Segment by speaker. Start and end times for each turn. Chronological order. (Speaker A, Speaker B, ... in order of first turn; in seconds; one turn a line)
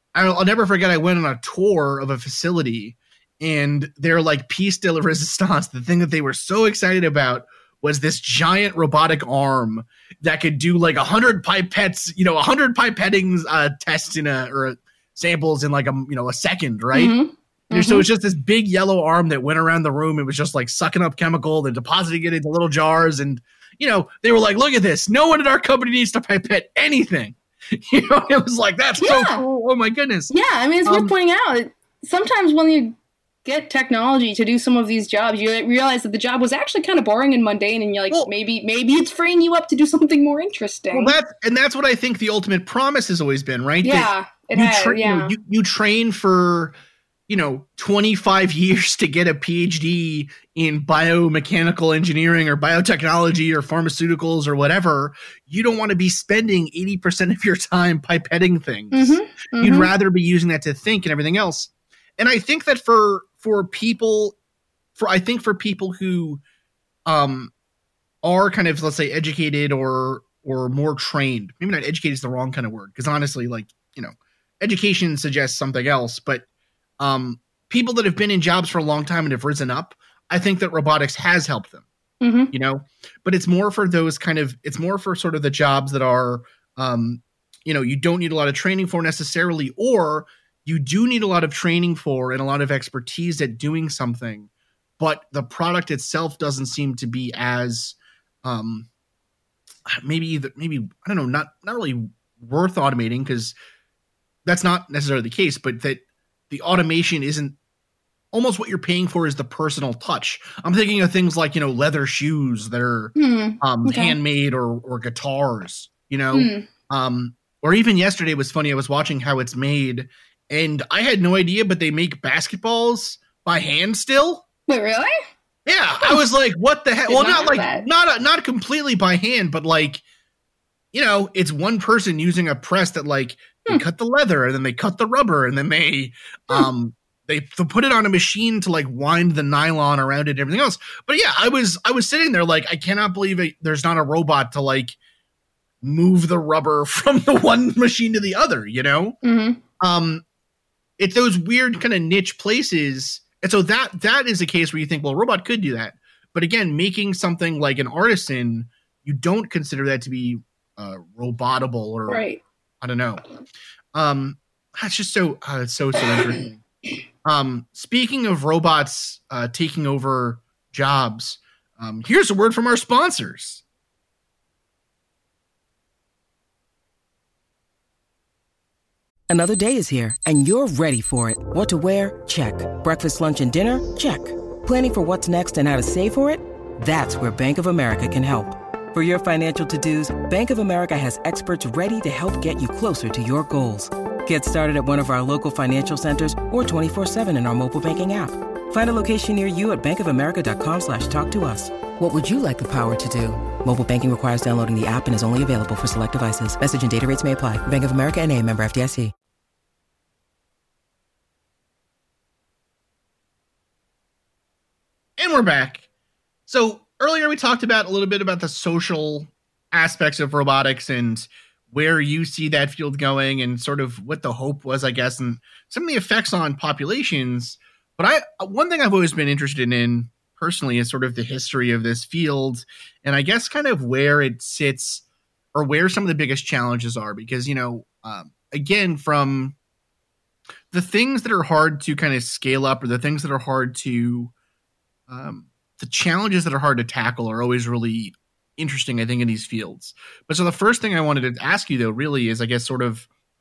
Speaker A: 0.1-17.2
Speaker B: 16.9-18.1
Speaker A: 17.7-30.3
Speaker B: 29.0-29.4
Speaker B: 30.3-41.2
Speaker A: 30.9-31.1
Speaker A: 40.9-46.7
Speaker B: 43.8-45.4
Speaker A: 47.3-64.4
Speaker B: 58.9-59.9
Speaker A: 65.0-66.4
Speaker A: 67.1-67.5
Speaker A: 68.2-76.5
Speaker A: 77.0-81.8
Speaker B: 82.2-82.5
Speaker A: 82.5-94.5
Speaker A: 95.0-98.9
Speaker A: 99.9-103.5
Speaker A: 104.5-107.6
Speaker A: 108.3-124.5
Speaker B: 113.2-114.2
Speaker B: 116.3-116.7
Speaker B: 124.7-125.1
Speaker A: 125.7-130.0
Speaker B: 127.1-127.9
Speaker A: 130.9-145.0
Speaker A: 145.8-149.2
Speaker B: 149.2-149.6
Speaker A: 149.8-150.2
Speaker A: 151.0-162.2
Speaker B: 162.1-162.4
Speaker A: 162.8-163.2
Speaker A: 163.9-166.6
Speaker A: 167.2-173.6
Speaker C: 179.3-209.1
Speaker A: 215.2-215.8
Speaker A: 216.5-239.6
Speaker A: 240.7-244.3
Speaker A: 245.1-253.1